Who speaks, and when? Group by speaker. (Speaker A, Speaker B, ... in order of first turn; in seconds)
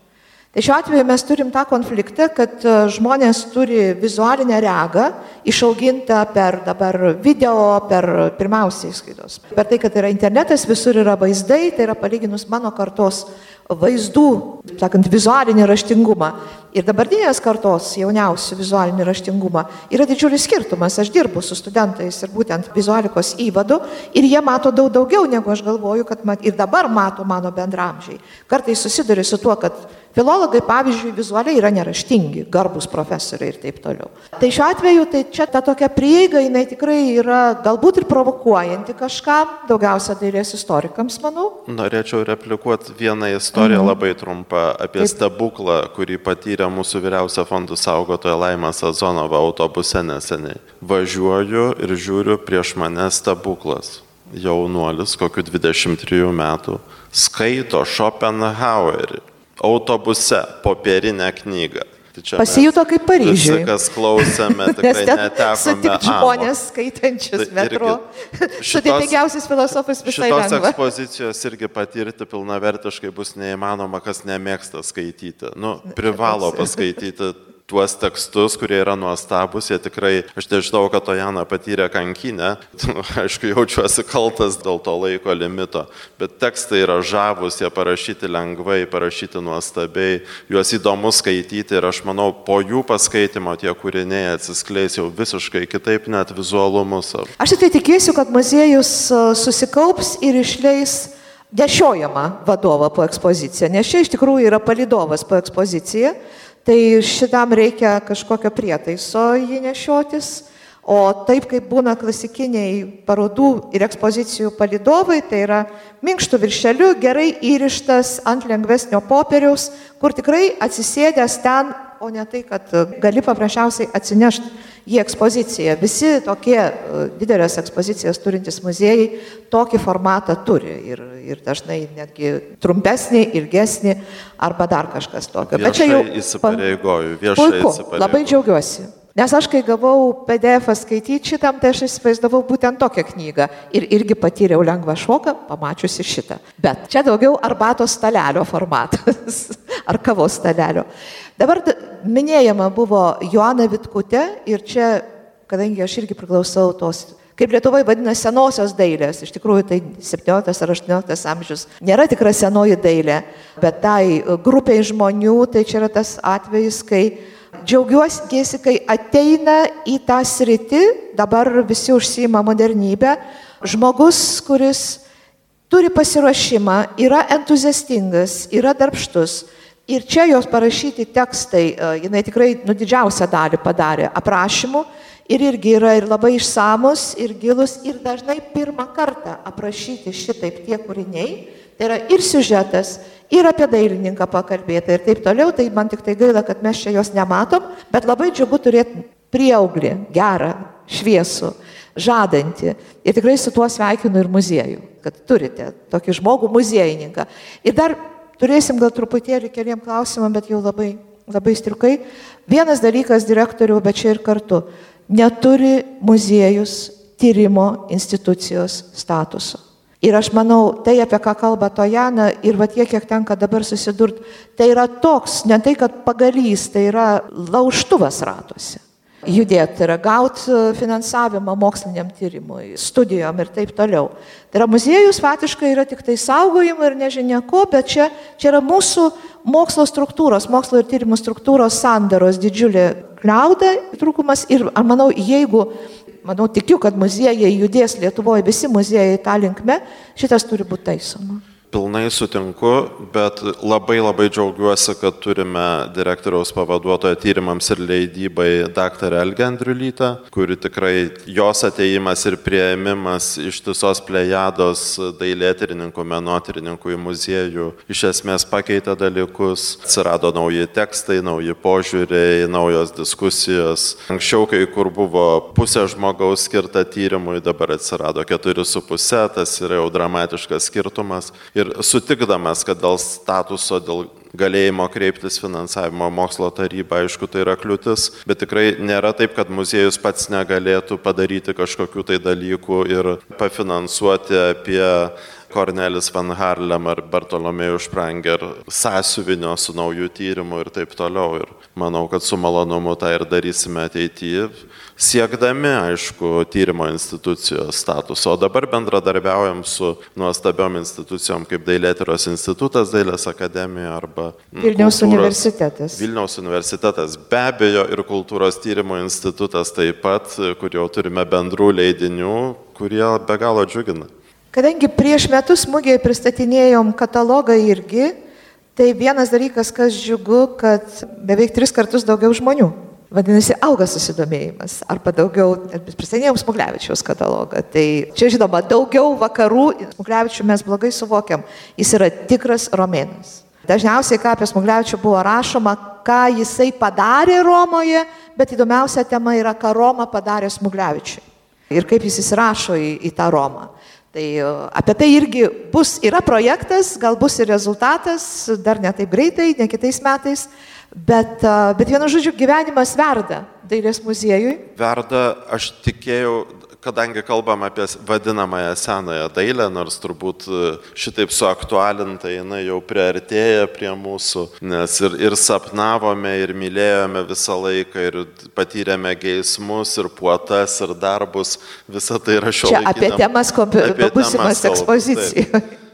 Speaker A: 0.5-41.6, 43.5-44.0, 62.4-70.8, 75.9-76.9, 97.4-136.6, 137.3-150.8, 151.4-175.0, 175.7-245.7, 246.2-251.4, 314.6-316.0, 324.5-328.1, 328.8-364.6, 382.6-385.6
Speaker B: 41.7-66.5, 67.4-68.0, 68.6-69.2, 70.1-97.3, 135.5-138.4, 251.7-315.4, 315.9-324.1, 364.8-383.3, 383.8-385.4